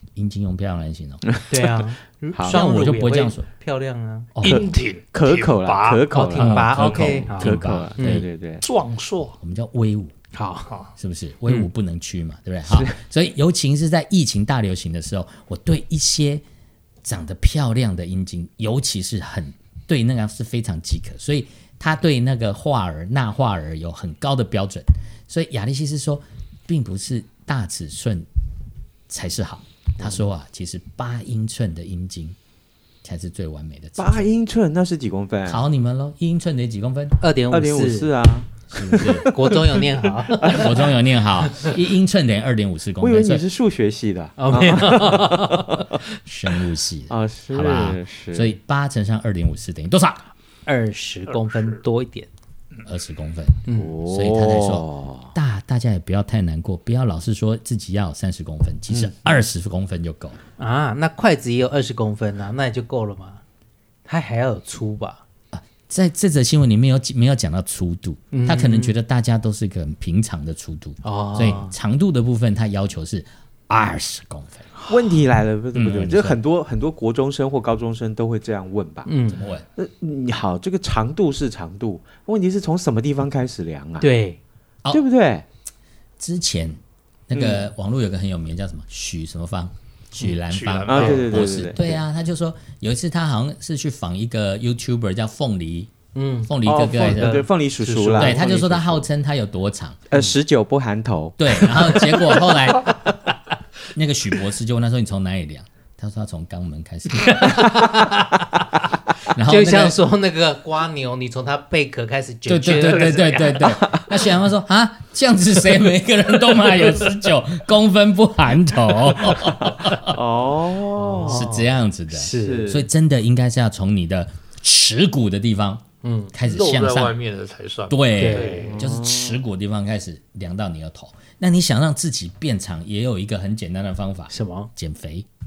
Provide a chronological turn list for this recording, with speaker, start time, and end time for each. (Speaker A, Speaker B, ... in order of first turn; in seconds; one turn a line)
Speaker A: 0.1-1.2
Speaker B: 1.5-4.3
Speaker C: 2.3-2.6
Speaker A: 2.4-3.5
Speaker A: 4.3-4.6
Speaker D: 4.4-6.0
Speaker C: 4.4-8.6
Speaker B: 6.0-8.2
Speaker A: 6.3-8.2
Speaker D: 8.6-9.3
Speaker A: 9.4-10.1
Speaker B: 10.3-10.7
Speaker A: 11.0-16.4
Speaker C: 12.7-13.0
Speaker A: 17.0-28.3
Speaker A: 29.1-32.4
Speaker A: 33.0-34.2
Speaker C: 34.0-35.6
Speaker A: 35.5-37.2
Speaker B: 37.2-38.1
Speaker C: 37.5-39.6
Speaker A: 38.7-39.3
Speaker B: 39.2-40.7
Speaker A: 40.4-43.4
Speaker C: 43.0-46.0
Speaker B: 44.4-45.7
Speaker A: 46.1-50.3
Speaker C: 47.1-48.5
Speaker B: 50.6-52.3
Speaker A: 52.8-60.4
Speaker C: 53.8-55.3
Speaker C: 58.9-59.2
Speaker B: 60.6-63.4
Speaker B: 64.0-65.2
Speaker A: 65.5-74.7
Speaker B: 68.3-69.0
Speaker B: 71.0-71.7
Speaker C: 74.9-79.1
Speaker A: 75.7-76.4
Speaker B: 79.0-79.4
Speaker A: 79.3-79.7
Speaker C: 79.8-84.1
Speaker B: 84.0-84.4
Speaker C: 84.9-85.4
Speaker A: 86.2-95.9
Speaker C: 87.3-87.7
Speaker D: 90.5-91.4
Speaker C: 90.8-92.0
Speaker B: 96.1-98.4
Speaker A: 96.5-97.4
Speaker C: 96.6-99.0
Speaker A: 98.2-100.0
Speaker C: 100.1-102.0
Speaker A: 101.4-103.2
Speaker A: 103.9-107.7
Speaker B: 107.2-108.4
Speaker A: 109.3-110.0
Speaker B: 109.4-114.1
Speaker A: 112.5-120.2
Speaker C: 119.6-121.4
Speaker B: 121.0-122.7
Speaker A: 121.2-127.2
Speaker C: 122.4-122.8
Speaker B: 126.0-126.3
Speaker D: 126.4-128.7
Speaker A: 127.9-135.2
Speaker B: 128.2-128.7
Speaker C: 128.5-129.4
Speaker B: 134.3-134.7